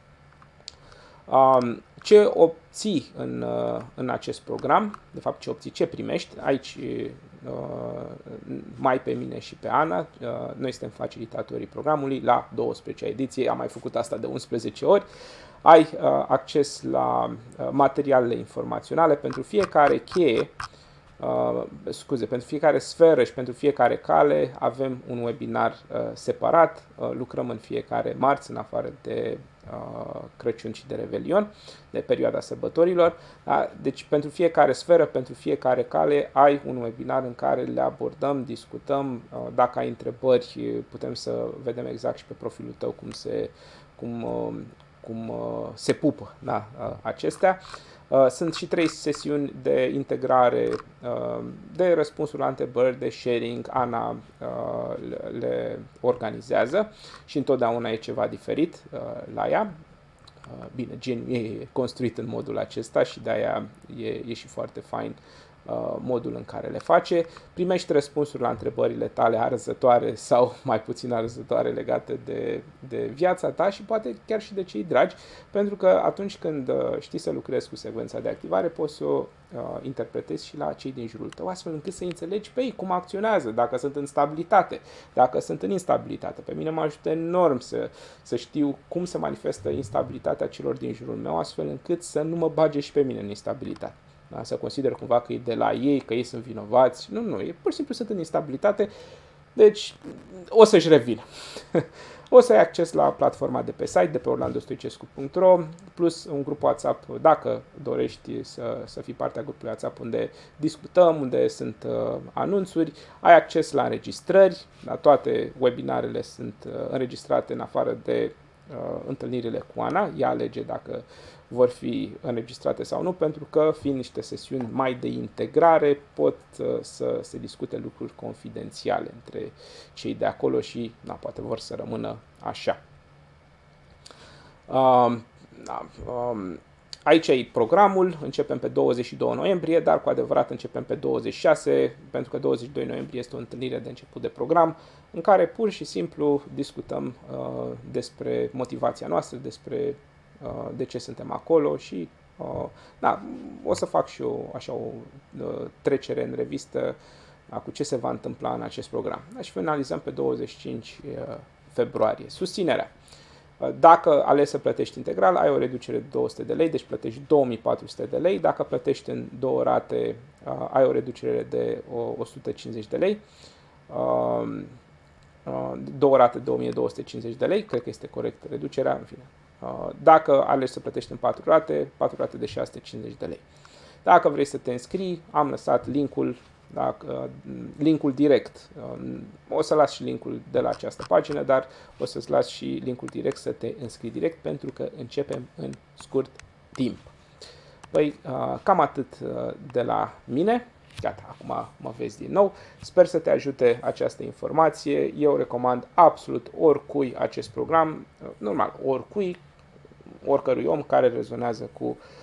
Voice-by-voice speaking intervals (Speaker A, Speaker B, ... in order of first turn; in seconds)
Speaker A: 1.3-15.0, 15.6-20.5, 21.2-59.7, 60.5-98.9, 99.5-132.8, 134.7-157.0, 157.5-162.9, 163.6-173.2, 173.9-174.7, 175.4-183.4, 184.0-197.1, 197.9-209.4, 210.2-212.0